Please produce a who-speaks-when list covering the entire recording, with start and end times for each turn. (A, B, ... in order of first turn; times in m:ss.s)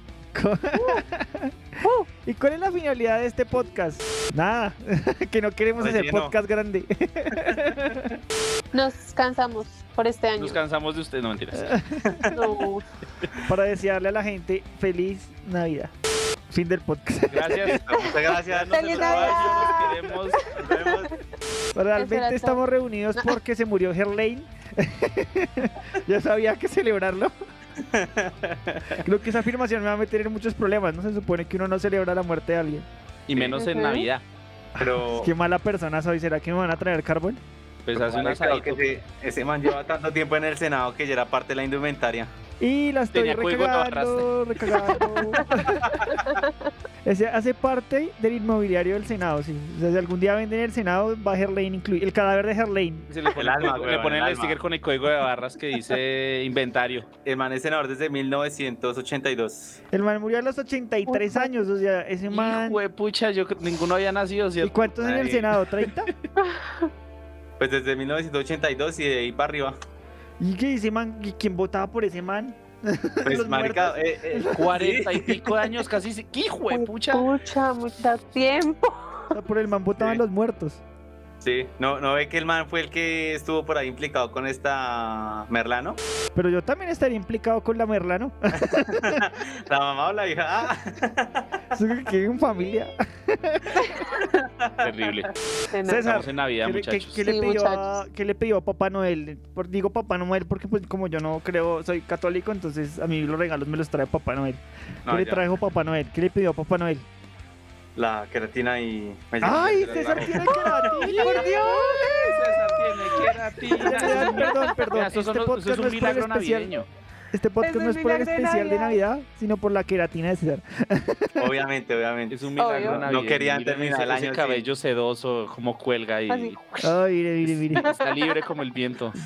0:00.3-0:01.5 A
0:00.7-0:01.0 B
0:02.2-0:08.1 A
0:05.8-0:06.3 C
0:08.7-0:10.6 B
0:10.4-0:11.7 D
0:11.6-0:12.3 A
0:12.3-0:12.8 B
0:13.4-0:15.9 A
0:16.5-0:17.8 A
0:17.3-0:20.4 D
0:17.8-0:21.1 C
0:18.7-0:21.1 B
0:21.7-0:27.3 A
0:22.0-0:22.6 B
0:27.8-0:29.0 C
0:29.0-0:32.9 A
0:33.3-0:34.2 D
0:33.3-0:33.6 C
0:33.5-0:34.1 B
0:34.8-0:37.4 A
0:34.8-0:35.3 C
0:37.8-0:38.8 D
0:37.9-0:42.3 C
0:42.6-0:45.9 A
0:43.1-0:45.0 D
0:45.8-0:46.2 C
0:47.0-0:53.1 A
0:53.1-0:57.1 D
0:53.3-0:54.6 C
0:57.2-0:59.8 C
0:59.9-1:02.8 A
1:01.1-1:01.5 B
1:02.3-1:04.9 D
1:04.6-1:06.1 A
1:05.0-1:05.5 C
1:06.4-1:06.9 B
1:07.6-1:09.8 C
1:10.4-1:14.8 A
1:13.2-1:15.5 C
1:14.5-1:17.3 D
1:16.7-1:19.3 B
1:19.3-1:20.8 A
1:20.0-1:20.2 C
1:21.4-1:26.0 C
1:26.3-1:29.2 A
1:28.7-1:31.4 C
1:31.7-1:33.9 A
1:33.9-1:34.3 B
1:34.6-1:35.1 C
1:34.8-1:35.3 D
1:35.7-1:36.1 B
1:35.8-1:47.1 A
1:36.0-1:37.2 D
1:37.2-1:37.9 B
1:45.0-1:45.4 C
1:48.0-1:51.4 C
1:49.4-1:52.2 A
1:50.9-1:52.3 B
1:52.0-1:56.9 D
1:53.7-1:56.7 A
1:53.9-1:54.6 B
1:57.3-2:01.4 A
1:57.6-1:59.0 B
2:01.4-2:04.7 C
2:02.3-2:06.6 D
2:02.6-2:03.0 B
2:06.3-2:06.9 B
2:06.8-2:07.9 A
2:07.4-2:09.2 D